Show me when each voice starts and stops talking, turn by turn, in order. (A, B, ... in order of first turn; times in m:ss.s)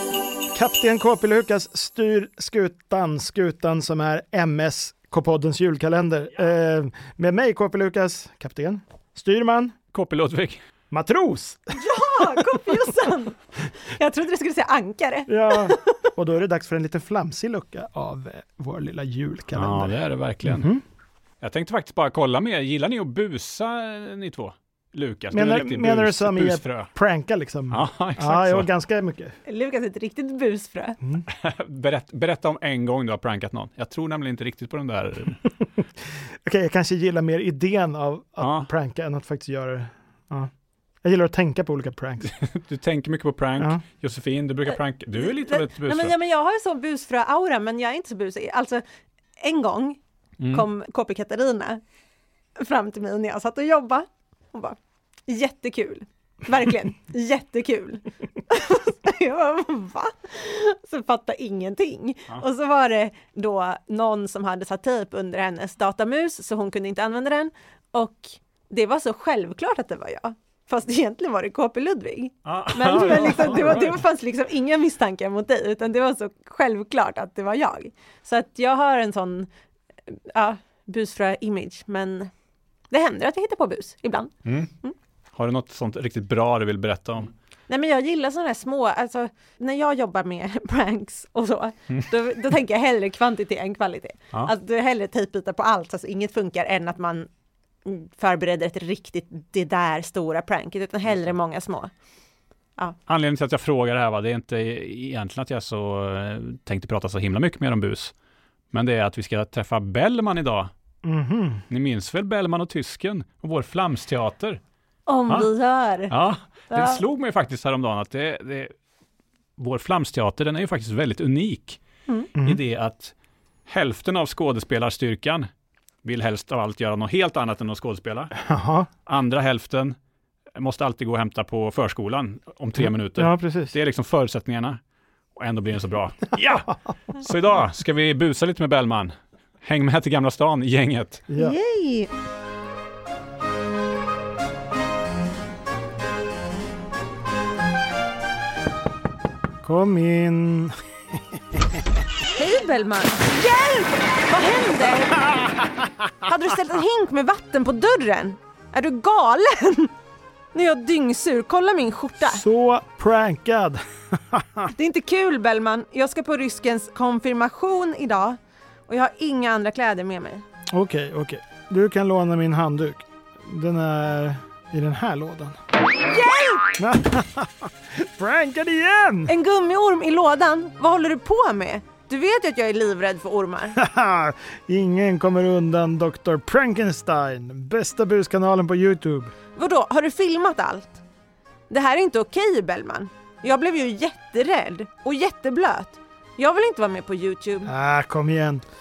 0:00.5-0:09.7 A
0:09.9-0:10.6 B
0:10.9-0:12.2 A
0:11.7-0:16.1 C
0:15.3-0:20.8 A
0:19.5-0:20.7 B
0:21.4-0:26.9 B
0:25.3-0:29.3 A
0:27.7-0:28.7 B
0:29.4-0:31.0 C
0:31.3-0:35.4 B
0:36.4-0:40.5 A
0:38.4-0:38.7 B
0:41.0-0:42.3 A
0:42.2-0:46.1 B
0:43.6-0:43.8 A
0:45.2-0:48.8 C
0:49.4-0:50.0 C
0:50.4-0:50.6 B
0:50.5-0:51.8 C
0:52.6-0:54.8 C
0:55.3-1:19.5 C
1:12.4-1:14.0 B
1:20.1-1:22.3 C
1:22.9-1:24.9 C
1:24.4-1:24.7 B
1:25.3-1:27.3 B
1:27.7-1:37.3 C
1:37.8-1:41.9 C
1:43.1-1:48.1 B
1:48.7-1:50.7 B
1:51.0-1:51.6 A
1:51.7-1:54.6 B
1:55.1-1:56.1 C
1:56.1-1:58.7 B
1:56.7-1:57.0 C
1:59.6-2:01.8 B
2:02.4-2:03.1 B
2:03.7-2:05.5 B
2:06.0-2:08.3 B
2:08.3-2:08.9 A
2:09.0-2:10.0 B
2:10.6-2:14.8 B
2:12.8-2:13.7 A
2:15.4-2:21.2 B
2:21.3-2:21.6 A
2:21.4-2:22.1 C
2:29.6-2:30.8 A
2:32.3-2:35.3 C
2:36.2-2:39.9 C
2:40.5-2:42.4 C
2:42.2-2:44.7 A
2:44.7-2:50.4 C
2:50.7-2:55.6 A
2:56.0-2:56.7 C
2:56.8-2:59.3 A
2:59.3-3:03.8 C
3:03.8-3:09.3 A
3:09.5-3:11.0 C
3:11.7-3:17.7 C
3:17.6-3:18.6 A